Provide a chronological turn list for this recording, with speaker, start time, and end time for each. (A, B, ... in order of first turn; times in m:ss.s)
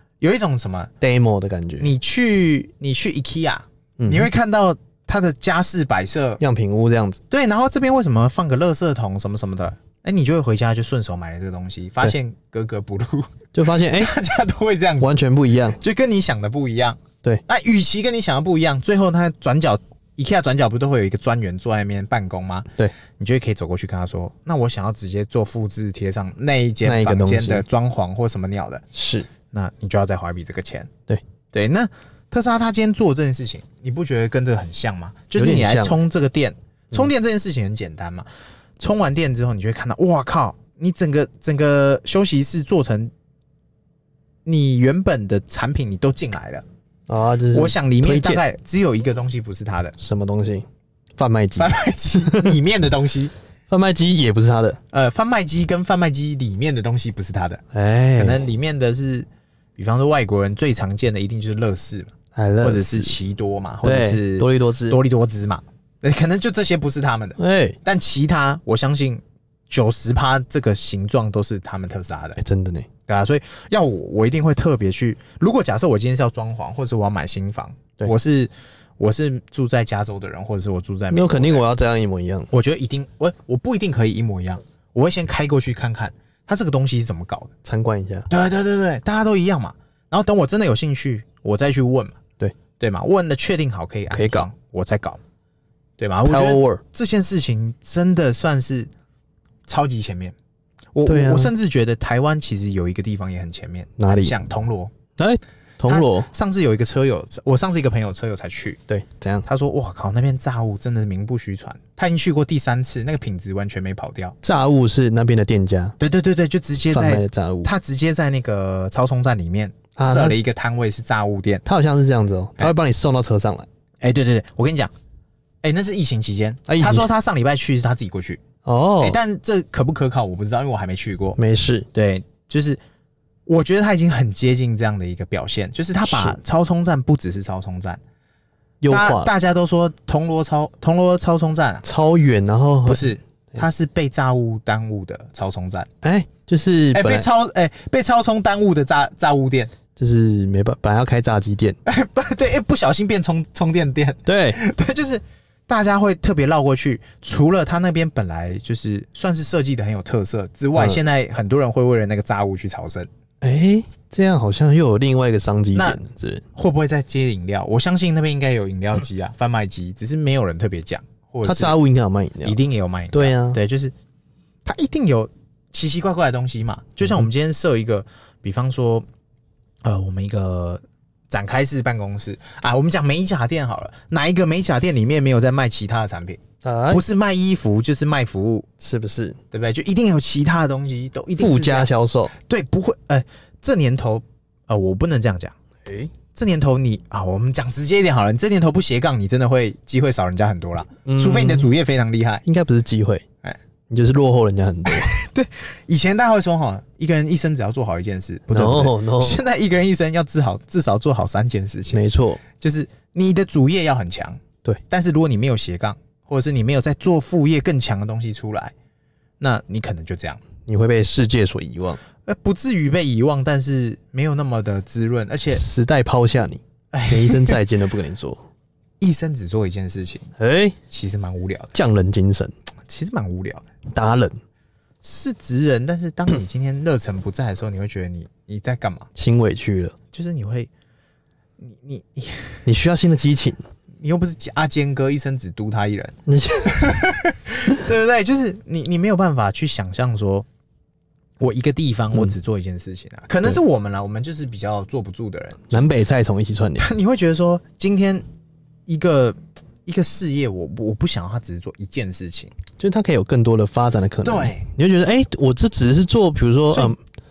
0:00.2-0:00.9 A
0:01.0-0:01.9 B
0:01.8-0:06.4 A
0:04.0-0:04.3 B
0:06.4-0:07.2 B
0:07.3-0:15.2 A
0:13.5-0:14.1 B
0:15.0-0:15.8 B
0:15.7-0:28.8 A
0:26.8-0:27.6 B
0:28.9-0:29.3 B
0:29.5-0:30.9 A
0:31.5-0:38.2 A
0:35.4-0:36.0 B
0:38.8-0:43.1 A
0:44.4-0:46.6 A
0:47.1-0:48.4 B
0:47.5-0:49.9 A
0:50.0-0:50.6 B
0:51.2-0:52.5 B
0:51.6-0:53.3 A
0:53.7-0:54.8 B
0:54.9-0:57.6 A
0:57.7-0:58.4 B
0:58.2-1:12.4 A
1:02.3-1:03.2 B
1:03.8-1:05.0 B
1:07.4-1:07.8 B
1:12.4-1:12.9 B
1:13.1-1:21.6 A
1:21.1-1:22.5 B
1:22.5-1:27.5 A
1:27.6-1:28.3 B
1:28.3-1:32.2 A
1:32.8-1:35.2 A
1:34.1-1:34.5 B
1:36.0-1:38.9 A
1:36.2-1:36.8 B
1:39.7-1:40.4 A
1:40.9-1:44.9 A
1:41.0-1:41.5 B
1:44.0-1:44.3 B
1:45.2-1:46.3 B
1:45.9-1:48.8 A
1:48.9-1:49.4 B
1:49.4-1:54.3 A
1:54.4-1:56.0 B
1:56.0-2:01.6 A
1:56.9-1:57.7 B
2:00.0-2:00.4 B
2:01.6-2:03.7 B
2:04.0-2:04.9 A
2:05.6-2:08.4 A
2:06.7-2:07.1 B
2:08.6-2:09.2 B
2:09.0-2:11.4 A
2:11.4-2:11.9 B
2:11.9-2:12.8 A
2:13.5-2:18.0 A
2:16.0-2:16.4 B
2:18.8-2:19.3 B
2:18.9-2:21.8 A
2:21.8-2:23.6 B
2:22.8-2:25.9 A
2:26.0-2:27.3 B
2:26.9-2:29.7 A
2:29.9-2:31.8 B
2:31.8-2:43.1 A
2:34.2-2:34.6 B
2:43.4-2:46.4 B
2:45.7-2:46.0 A
2:46.5-2:51.8 A
2:51.4-2:52.6 B
2:52.4-2:53.9 A
2:53.1-2:53.6 B
2:54.6-2:59.0 A
2:59.8-3:08.7 A
3:06.6-3:07.0 B
3:08.8-3:09.4 B
3:09.5-3:15.5 A
3:11.4-3:12.3 B
3:15.8-3:16.1 B
3:16.3-3:22.4 A
3:21.0-3:21.7 B
3:22.4-3:23.2 B
3:23.9-3:25.2 B
3:24.8-3:32.0 A
3:28.5-3:29.4 B
3:31.9-3:32.4 B
3:32.6-3:38.7 A
3:39.4-3:40.4 A
3:40.6-3:42.0 B
3:42.2-3:45.6 A
3:45.5-3:48.4 B
3:46.9-3:47.6 A
3:49.0-3:50.3 A
3:50.4-3:50.8 B
3:50.9-3:51.7 A
3:51.7-3:52.5 B
3:52.8-3:53.7 A
3:53.9-3:54.4 B
3:55.0-3:59.1 A
3:59.1-4:00.0 B
4:00.1-4:00.7 A
4:01.6-4:02.6 A
4:02.6-4:03.6 B
4:04.0-4:06.1 A
4:06.3-4:07.0 B
4:06.6-4:10.4 A
4:11.4-4:15.9 A
4:15.7-4:16.9 B
4:16.8-4:18.2 A
4:18.9-4:22.5 A
4:22.8-4:27.0 B
4:24.2-4:24.7 A